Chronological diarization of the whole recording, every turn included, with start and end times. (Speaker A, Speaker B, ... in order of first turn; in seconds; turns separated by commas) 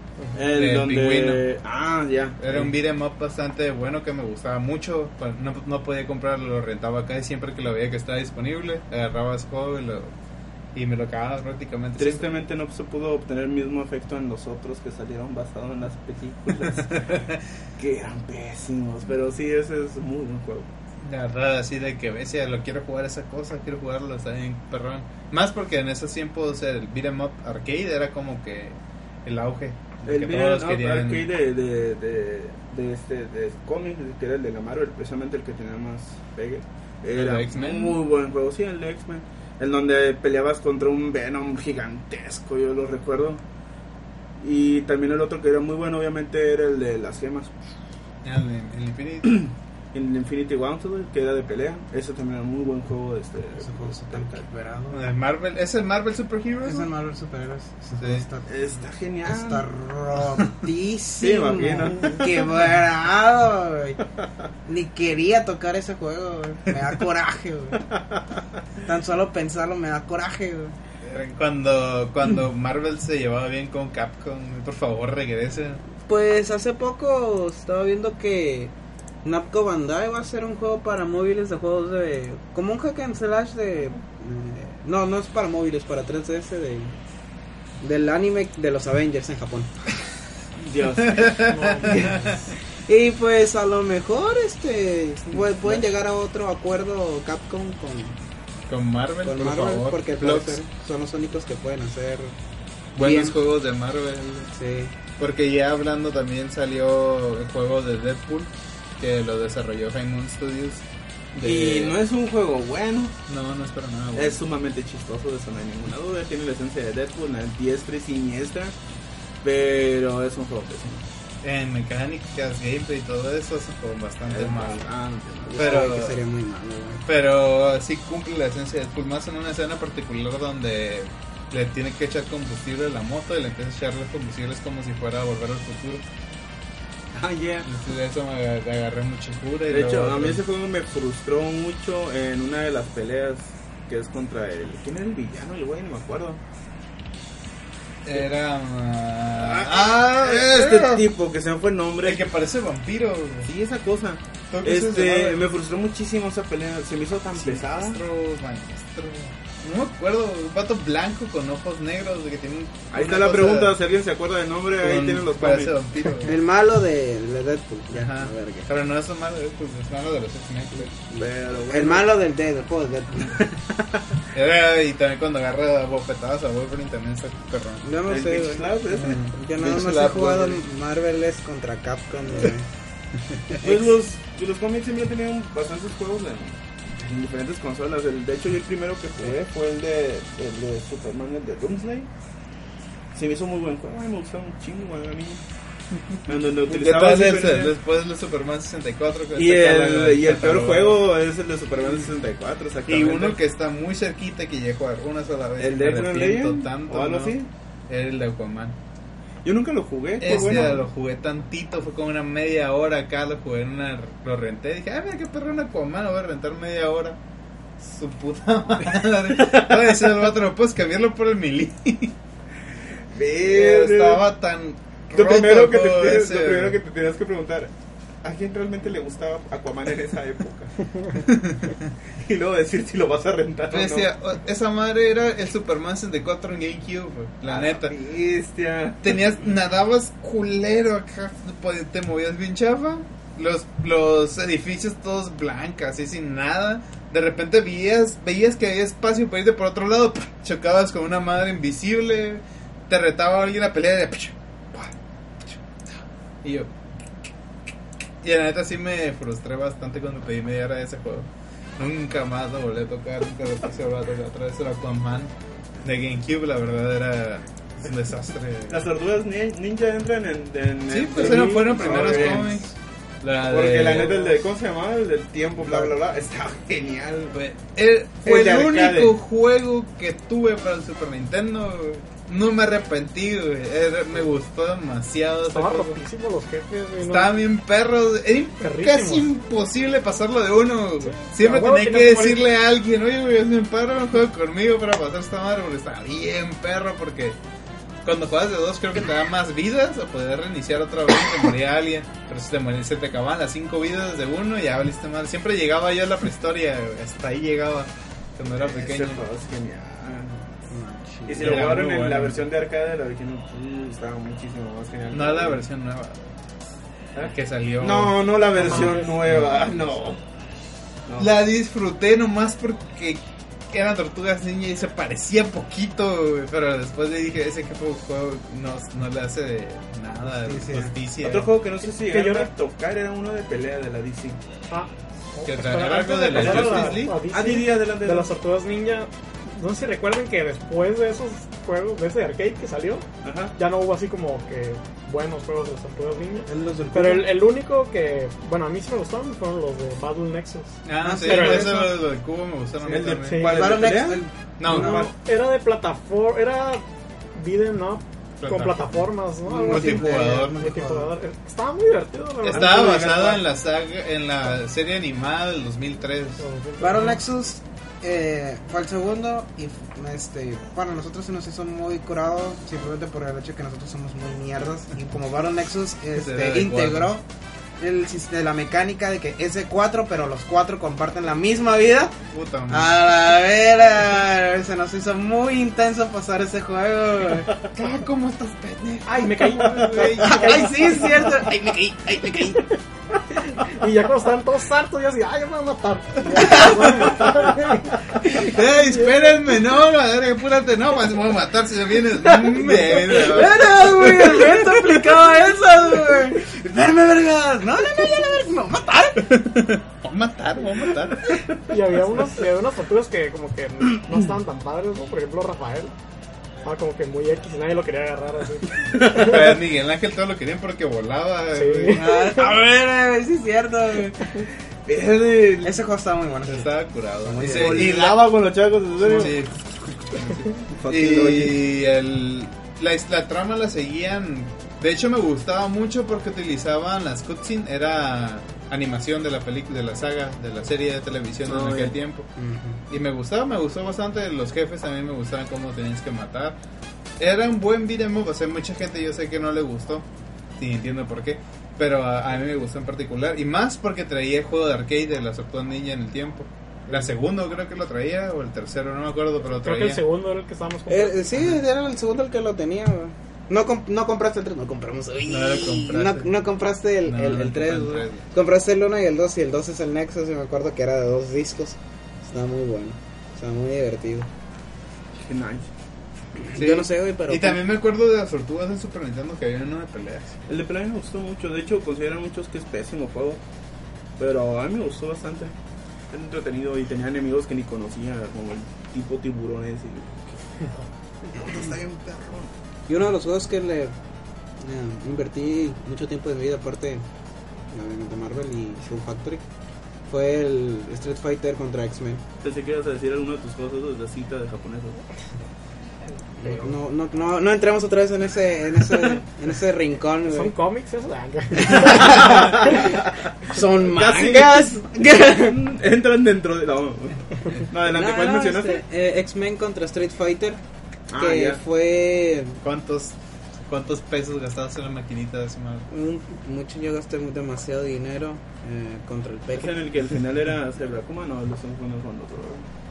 Speaker A: 0.3-2.7, Speaker B: 0.5-1.4, Speaker B: 2.4-10.1, Speaker B: 10.8-12.3, Speaker A: 12.0-17.2, Speaker B: 16.9-17.4, Speaker A: 17.8-20.7, Speaker B: 21.0-31.3, Speaker A: 30.1-43.4, Speaker B: 37.1-38.0, Speaker A: 44.4-47.5, Speaker B: 48.2-49.5, Speaker A: 49.3-54.4, Speaker C: 53.6-55.1, Speaker B: 54.9-56.9, Speaker C: 56.6-58.5, Speaker B: 58.0-58.2, Speaker A: 58.5-59.7, Speaker C: 59.3-64.0, Speaker A: 61.2-62.4, Speaker C: 64.7-67.8, Speaker C: 68.8-70.8, Speaker B: 71.0-75.8, Speaker C: 76.0-78.7, Speaker C: 79.2-87.0, Speaker C: 87.8-89.7, Speaker A: 90.6-91.5, Speaker B: 91.0-92.5, Speaker D: 91.5-92.4, Speaker C: 91.8-92.3, Speaker C: 92.9-98.2, Speaker B: 98.7-100.6, Speaker C: 99.2-102.4, Speaker B: 103.0-104.5, Speaker C: 103.0-103.4, Speaker C: 104.5-104.9, Speaker B: 105.2-112.0, Speaker A: 111.4-113.2, Speaker B: 113.3-114.4, Speaker A: 114.1-118.8, Speaker A: 119.4-121.0, Speaker B: 121.4-124.8, Speaker A: 124.3-125.8, Speaker C: 125.5-127.0, Speaker B: 125.5-126.2, Speaker B: 127.1-136.1, Speaker A: 137.1-137.7, Speaker B: 137.7-140.4, Speaker A: 139.7-146.4, Speaker B: 148.0-151.1, Speaker A: 149.4-152.2, Speaker B: 152.0-153.5, Speaker A: 153.5-158.0, Speaker B: 154.5-155.4, Speaker B: 157.4-163.8, Speaker A: 162.9-166.1, Speaker B: 164.8-166.3, Speaker C: 166.2-168.7, Speaker B: 167.9-170.9, Speaker C: 170.7-173.5, Speaker A: 171.2-172.1, Speaker B: 174.3-177.8, Speaker C: 177.8-178.7, Speaker A: 178.1-179.2, Speaker B: 178.9-180.6, Speaker C: 179.3-182.7, Speaker A: 183.6-192.1, Speaker A: 193.2-195.4, Speaker A: 196.3-197.7, Speaker B: 196.7-201.1, Speaker A: 199.4-203.4, Speaker B: 202.9-207.4, Speaker A: 205.6-207.5, Speaker B: 207.9-208.8, Speaker A: 209.4-210.8, Speaker B: 210.2-217.2, Speaker B: 217.8-222.2, Speaker A: 223.1-224.2, Speaker B: 223.4-226.8, Speaker A: 225.1-227.7, Speaker A: 228.2-230.8, Speaker B: 231.2-231.9, Speaker A: 232.2-234.1, Speaker B: 233.7-237.9, Speaker A: 237.5-239.2, Speaker B: 239.0-254.9, Speaker B: 255.4-256.7, Speaker B: 258.2-268.8, Speaker A: 268.7-272.6, Speaker B: 270.9-274.3, Speaker A: 273.5-277.4, Speaker C: 275.6-275.9, Speaker B: 277.3-286.0, Speaker A: 278.2-279.1, Speaker D: 285.5-287.3, Speaker B: 287.0-297.4, Speaker D: 288.6-289.2, Speaker D: 291.0-292.4, Speaker B: 298.0-309.3, Speaker A: 308.6-310.5, Speaker C: 310.7-311.6, Speaker A: 311.3-315.6, Speaker B: 311.4-312.5, Speaker B: 315.1-316.2, Speaker A: 317.1-320.2, Speaker B: 317.3-320.0, Speaker D: 318.6-319.3, Speaker B: 321.2-331.5, Speaker C: 330.3-330.9, Speaker A: 331.2-334.4, Speaker D: 331.8-332.5, Speaker D: 334.7-343.1, Speaker B: 335.4-337.2, Speaker A: 336.2-338.3, Speaker A: 343.2-343.6, Speaker D: 343.6-351.9, Speaker C: 346.5-347.3, Speaker B: 350.9-353.4, Speaker C: 351.0-351.9, Speaker A: 352.9-355.1, Speaker D: 353.3-353.8, Speaker C: 353.5-355.1, Speaker B: 354.6-355.1, Speaker D: 354.7-363.3, Speaker B: 358.4-359.1, Speaker C: 359.5-361.1, Speaker B: 359.6-360.6, Speaker A: 362.4-363.4, Speaker B: 362.5-366.4, Speaker D: 366.4-367.2, Speaker C: 366.8-377.2, Speaker B: 376.1-377.1, Speaker C: 377.8-382.1, Speaker B: 382.3-382.9, Speaker C: 382.7-387.5, Speaker B: 387.7-390.8, Speaker D: 389.1-391.4, Speaker C: 390.2-392.7, Speaker D: 393.4-398.4, Speaker C: 396.3-397.3, Speaker B: 398.3-405.0, Speaker C: 402.2-409.4, Speaker B: 409.2-411.5, Speaker D: 411.7-415.9, Speaker D: 416.6-419.0, Speaker A: 419.0-419.3, Speaker B: 419.1-422.1, Speaker D: 421.6-422.4, Speaker C: 421.9-424.4, Speaker A: 424.9-425.7, Speaker C: 425.6-427.9, Speaker B: 426.4-428.3, Speaker A: 427.4-429.4, Speaker B: 429.0-442.3, Speaker A: 430.7-431.6, Speaker A: 441.5-442.0, Speaker C: 442.4-442.8, Speaker B: 442.9-446.6, Speaker B: 447.2-450.1, Speaker B: 450.6-460.0, Speaker D: 459.5-461.2, Speaker C: 460.9-474.3, Speaker B: 465.3-466.4, Speaker B: 467.1-468.3, Speaker A: 475.2-475.7, Speaker C: 476.4-477.6, Speaker B: 476.6-480.4, Speaker A: 480.5-483.4, Speaker A: 484.2-485.5, Speaker A: 486.1-490.8, Speaker A: 491.3-492.6, Speaker C: 492.9-493.9, Speaker C: 494.6-497.0, Speaker C: 497.7-499.4, Speaker C: 500.1-502.2, Speaker A: 502.4-505.0, Speaker C: 506.4-510.5, Speaker D: 510.3-512.8, Speaker C: 511.6-515.6, Speaker A: 512.1-513.3, Speaker A: 513.9-518.8, Speaker C: 517.8-520.6, Speaker A: 521.1-521.6, Speaker C: 521.1-522.6, Speaker B: 522.6-525.9, Speaker C: 525.9-529.7, Speaker A: 529.5-532.7